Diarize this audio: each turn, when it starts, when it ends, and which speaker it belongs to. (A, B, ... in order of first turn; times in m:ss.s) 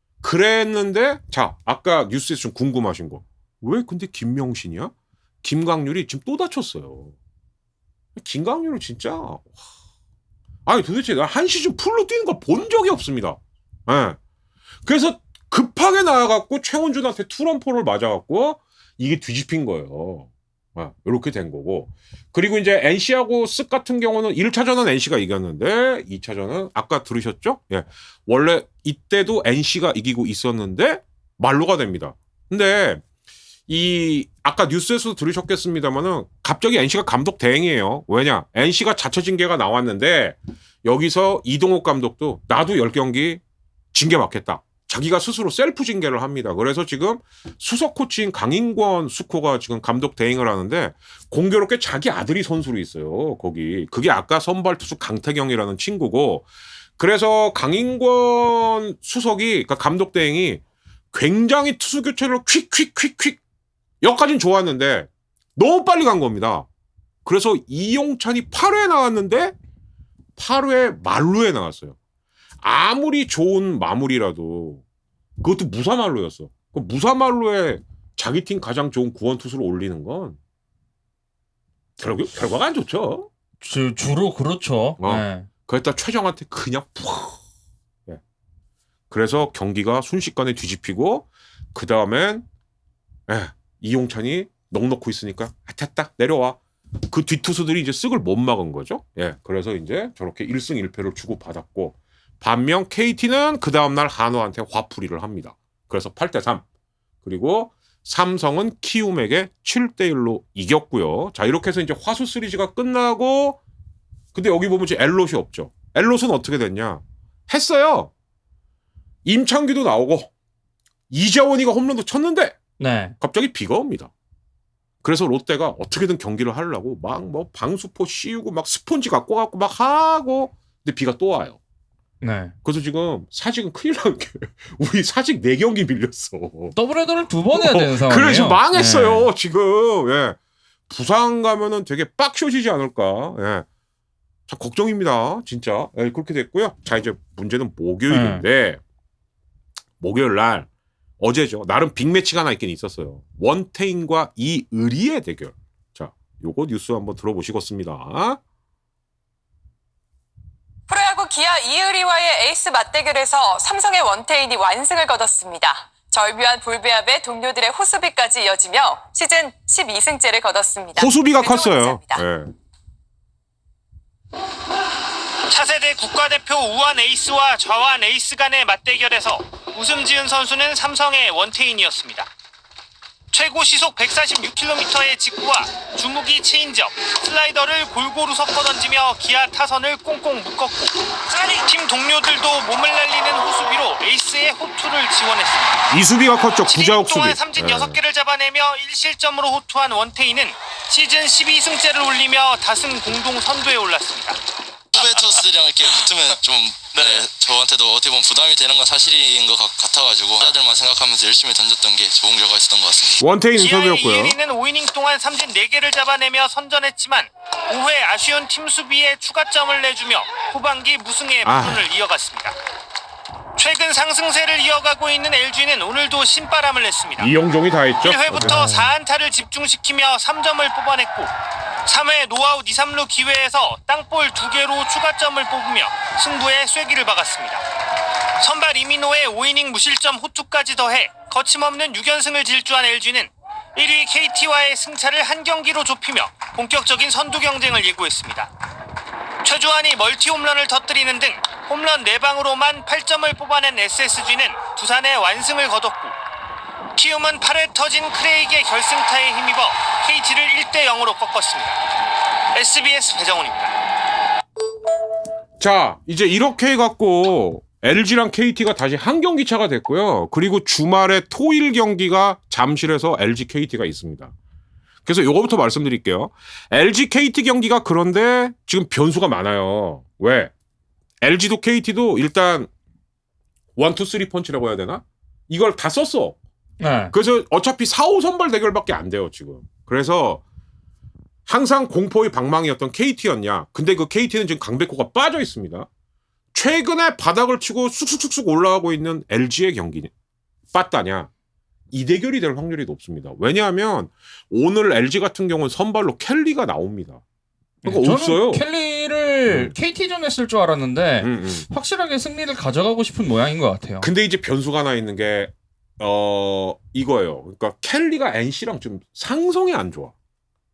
0:00.2-0:07.1 A
0:08.2-0:09.6 A
0:10.6-0:14.2 A
0:14.8-0:33.0 A
0:33.7-0:43.4 A
0:43.9-0:56.5 A
0:57.0-1:03.4 A
1:04.0-1:06.7 A
1:07.2-1:09.5 A
1:10.4-1:12.0 A
1:12.6-1:14.8 A
1:15.4-1:20.4 A
1:22.0-1:23.3 A
1:23.6-1:25.5 B
1:25.0-1:27.4 A
1:29.1-1:32.5 A
1:33.3-1:46.6 A
1:47.2-1:53.6 A
1:54.3-1:58.1 A
1:59.2-2:00.3 A
2:01.1-2:02.6 A
2:02.8-2:03.1 B
2:03.2-2:04.1 A
2:05.0-2:11.6 A
2:12.2-2:12.5 B
2:12.6-2:16.7 A
2:16.7-2:19.3 B
2:17.5-2:20.4 A
2:20.9-2:23.6 A
2:24.5-2:28.8 A
2:28.1-2:28.4 B
2:30.0-2:30.7 A
2:31.2-2:38.4 A
2:40.9-2:52.2 C
2:50.9-2:52.5 A
2:55.5-3:02.3 D
3:03.3-3:15.8 D
3:15.9-3:18.0 A
3:16.6-3:24.4 D
3:24.9-3:33.2 E
3:33.2-3:34.4 A
3:33.6-3:42.6 D
3:41.4-3:41.8 A
3:43.6-3:47.3 D
3:47.2-3:48.6 A
3:48.0-3:51.3 D
3:48.3-3:48.9 B
3:51.8-3:57.6 D
3:58.4-4:08.5 D
4:09.4-4:16.1 D
4:16.9-4:21.8 D
4:22.5-4:23.7 D
4:25.6-4:34.3 A
4:35.0-4:40.5 A
4:41.2-4:42.7 A
4:43.8-4:46.4 A
4:46.8-4:47.1 B
4:47.1-4:50.4 A
4:51.4-4:55.9 A
4:56.5-5:00.1 A
5:00.7-5:01.3 A
5:01.9-5:07.2 A
5:07.8-5:14.1 B
5:07.8-5:08.6 A
5:09.5-5:09.7 A
5:11.2-5:11.6 A
5:14.0-5:20.1 A